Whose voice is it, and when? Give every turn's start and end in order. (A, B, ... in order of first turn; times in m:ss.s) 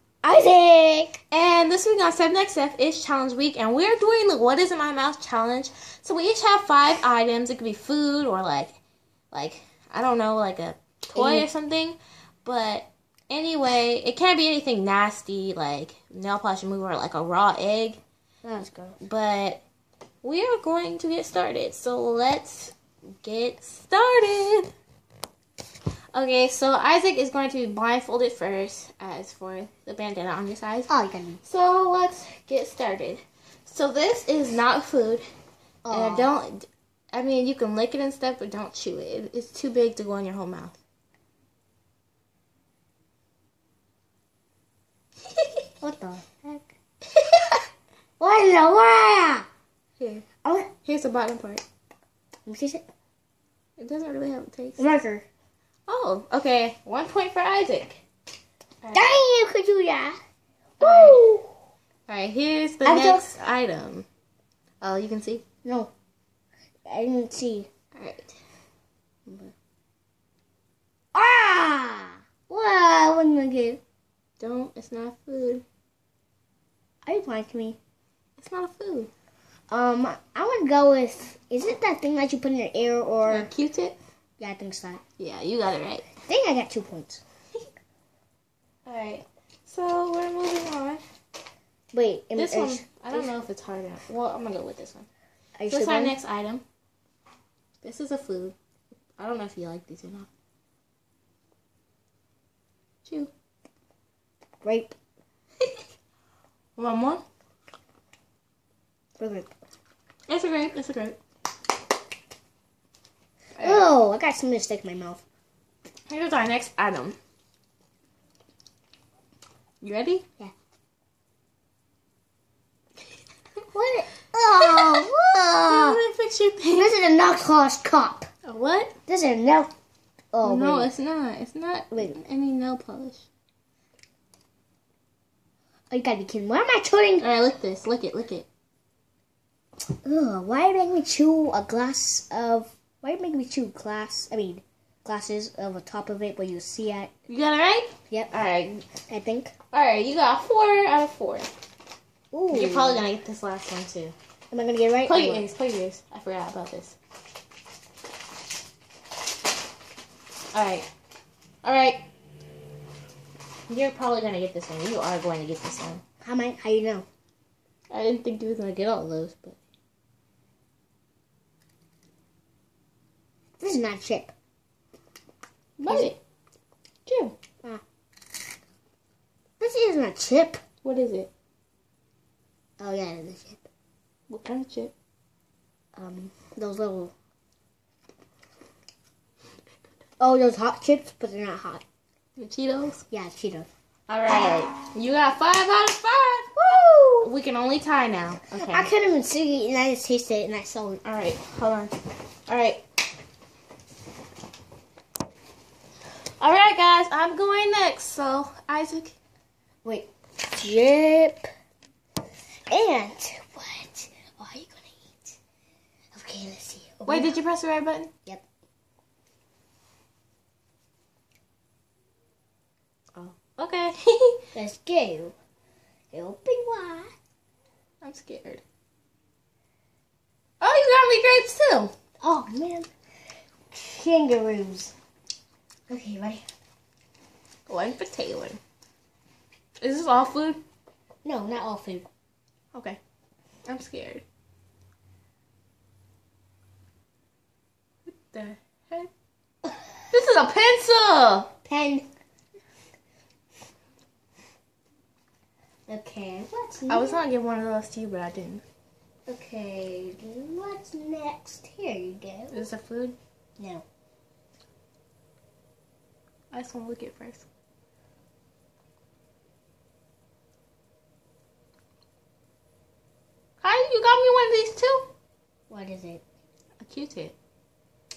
0:00.2-0:01.2 A
0:01.3-0:08.8 B
0:09.3-0:18.0 B
0:11.1-0:11.5 A
0:18.4-0:19.0 A
0:19.0-0:19.6 B
0:20.2-0:24.7 B
0:26.1-0:30.9 B
0:30.9-0:31.4 A
0:31.4-0:35.2 B
0:35.8-0:36.3 A
0:35.9-0:40.8 B
0:45.8-0:46.7 A
0:48.2-0:49.5 A
0:50.0-0:50.2 B
0:50.4-0:50.7 A
0:50.8-0:51.6 B
0:52.4-0:52.8 A
0:53.8-0:54.8 B
0:54.8-0:55.2 A
0:55.9-0:58.0 B
0:58.8-0:59.1 B
0:58.9-1:00.2 A
1:00.8-1:01.2 B
1:00.8-1:01.5 A
1:02.1-1:04.0 B
1:02.8-1:03.3 A
1:04.8-1:05.4 B
1:05.6-1:05.9 A
1:06.9-1:07.7 A
1:07.9-1:08.4 B
1:09.3-1:09.5 A
1:11.1-1:13.8 A
1:14.4-1:15.6 B
1:17.0-1:17.8 A
1:18.4-1:19.1 B
1:19.7-1:23.5 A
1:23.2-1:24.0 B
1:24.4-1:25.0 A
1:25.2-1:26.1 B
1:26.2-1:27.2 A
1:28.8-1:31.0 B
1:31.9-1:33.3 A
1:32.4-1:35.1 B
1:35.6-1:36.2 A
1:35.7-1:36.6 B
1:37.8-1:38.5 B
1:39.2-1:40.3 B
1:43.0-1:43.3 B
1:44.6-1:44.9 A
1:46.8-1:47.2 B
1:49.2-1:49.5 A
1:50.3-1:51.2 B
1:53.6-1:53.8 B
1:53.6-1:55.2 A
1:56.1-1:57.2 B
1:59.8-2:00.2 B
2:03.7-2:06.0 A
2:04.5-2:05.1 B
2:05.6-2:07.0 B
2:06.7-2:08.3 A
2:08.4-2:09.0 B
2:09.1-2:09.7 A
2:10.3-2:10.9 A
2:10.4-2:13.2 B
2:15.9-2:17.3 A
2:17.2-2:18.5 B
2:20.0-2:27.1 A
2:27.3-2:28.9 B
2:29.1-2:29.5 A
2:29.7-2:31.5 B
2:32.3-2:33.0 A
2:32.5-2:34.1 B
2:34.5-2:35.4 A
2:35.0-2:37.0 B
2:40.5-2:40.9 B
2:41.6-2:42.0 B
2:43.7-2:46.0 B
2:46.2-2:47.0 A
2:47.9-2:49.6 B
2:53.6-2:54.3 A
2:55.8-2:56.2 B
2:55.9-2:56.1 A
2:57.0-2:57.3 B
2:59.6-3:00.6 A
3:00.8-3:01.3 B
3:02.8-3:03.6 A
3:04.3-3:04.9 B
3:05.9-3:07.1 A
3:10.2-3:11.8 A
3:12.4-3:13.0 B
3:13.1-3:13.7 A
3:14.1-3:16.5 B
3:16.6-3:17.3 A
3:17.2-3:18.9 B
3:18.5-3:21.0 A
3:21.0-3:21.9 B
3:22.5-3:22.8 B
3:26.4-3:29.1 B
3:29.8-3:31.5 A
3:32.7-3:35.4 A
3:36.1-3:37.3 A
3:37.0-3:38.1 B
3:43.6-3:44.4 B
3:44.5-3:45.4 A
3:46.1-3:47.1 A
3:48.0-3:48.6 B
3:50.6-3:51.9 B
3:52.2-3:52.9 A
3:53.7-3:54.9 A
3:55.9-3:56.4 A
3:57.7-3:58.6 B
3:59.8-4:00.6 B
4:01.2-4:02.1 A
4:02.7-4:03.0 B
4:03.6-4:04.2 B
4:08.1-4:09.1 B
4:10.1-4:11.5 B
4:11.6-4:12.0 A
4:15.9-4:17.2 A
4:16.9-4:18.6 B
4:19.3-4:22.7 A
4:22.5-4:23.2 B
4:23.6-4:23.8 A
4:26.5-4:27.4 B
4:33.6-4:35.1 B
4:35.7-4:36.2 A
4:36.8-4:37.3 B